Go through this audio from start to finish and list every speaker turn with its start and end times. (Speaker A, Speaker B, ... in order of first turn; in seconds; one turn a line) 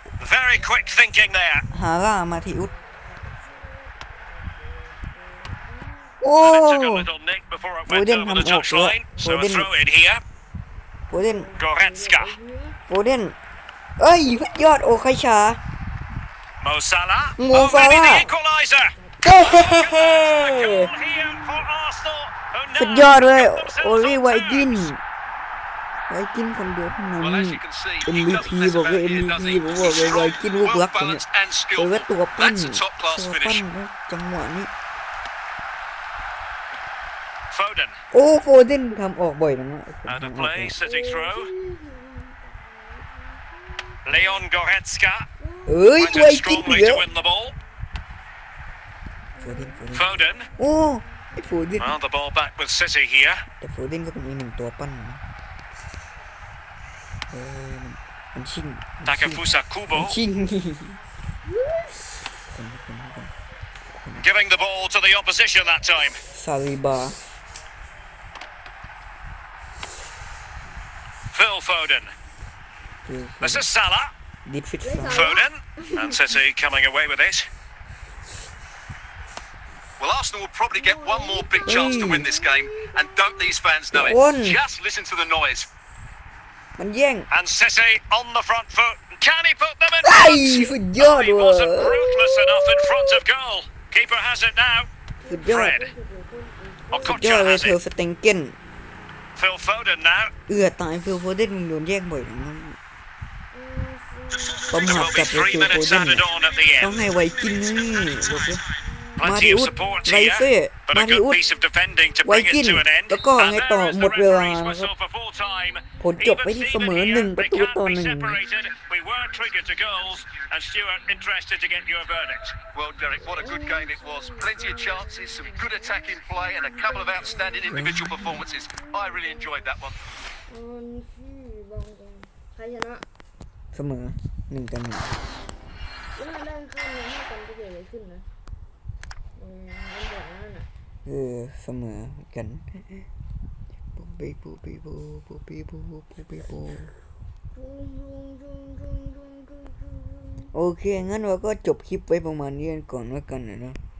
Speaker A: 0.2-1.7
Speaker B: 0.6-1.1
Speaker B: 1.7-6.2
Speaker C: 1.7-2.7
Speaker C: 6.2-7.1
Speaker A: 6.4-10.2
Speaker C: 7.9-9.7
Speaker C: 11.1-11.5
Speaker B: 11.1-12.8
Speaker A: 11.6-12.3
Speaker C: 12.9-13.3
Speaker C: 14.0-15.6
Speaker A: 16.6-18.9
Speaker C: 17.4-18.3
Speaker B: 18.9-19.4
Speaker C: 19.2-20.9
Speaker A: 19.6-24.9
Speaker B: 20.7-21.6
Speaker C: 22.8-25.0
Speaker C: 26.1-34.7
Speaker D: 27.2-33.3
Speaker A: 33.2-33.6
Speaker A: 37.5-38.0
Speaker C: 38.1-40.8
Speaker A: 40.1-41.5
Speaker B: 40.8-44.5
Speaker A: 44.0-45.3
Speaker B: 45.4-46.0
Speaker C: 45.7-47.1
Speaker A: 46.0-47.6
Speaker B: 49.3-51.8
Speaker C: 49.4-52.0
Speaker A: 49.9-50.5
Speaker A: 51.8-53.5
Speaker C: 53.5-55.2
Speaker C: 57.3-61.0
Speaker A: 59.0-60.2
Speaker B: 61.5-62.2
Speaker C: 62.5-63.3
Speaker C: 63.9-64.3
Speaker A: 64.2-66.2
Speaker C: 66.3-67.2
Speaker A: 71.3-72.1
Speaker C: 73.0-73.7
Speaker A: 73.4-74.1
Speaker C: 74.5-75.3
Speaker B: 74.8-76.4
Speaker A: 75.1-77.5
Speaker D: 80.0-85.7
Speaker B: 80.7-83.6
Speaker C: 81.7-82.3
Speaker C: 83.9-84.6
Speaker C: 86.8-87.3
Speaker A: 87.3-94.9
Speaker C: 90.0-92.0
Speaker B: 91.8-92.6
Speaker B: 95.2-97.2
Speaker C: 95.3-95.8
Speaker A: 95.5-95.9
Speaker A: 96.9-97.8
Speaker C: 97.0-98.6
Speaker A: 99.4-100.3
Speaker C: 100.5-102.8
Speaker B: 103.5-105.8
Speaker C: 104.7-106.2
Speaker A: 104.8-107.1
Speaker C: 106.8-108.6
Speaker A: 107.6-108.3
Speaker B: 108.7-110.4
Speaker A: 109.2-122.6
Speaker C: 109.2-111.4
Speaker B: 111.5-112.2
Speaker C: 112.2-114.9
Speaker B: 115.3-116.2
Speaker C: 116.0-118.4
Speaker D: 122.7-129.9
Speaker B: 123.2-129.7
Speaker C: 127.7-128.3
Speaker B: 130.5-133.1
Speaker C: 133.7-135.2
Speaker B: 136.1-138.3
Speaker B: 139.3-140.7
Speaker C: 141.1-143.1
Speaker C: 143.9-146.9
Speaker B: 147.5-150.5
Speaker C: 150.5-153.8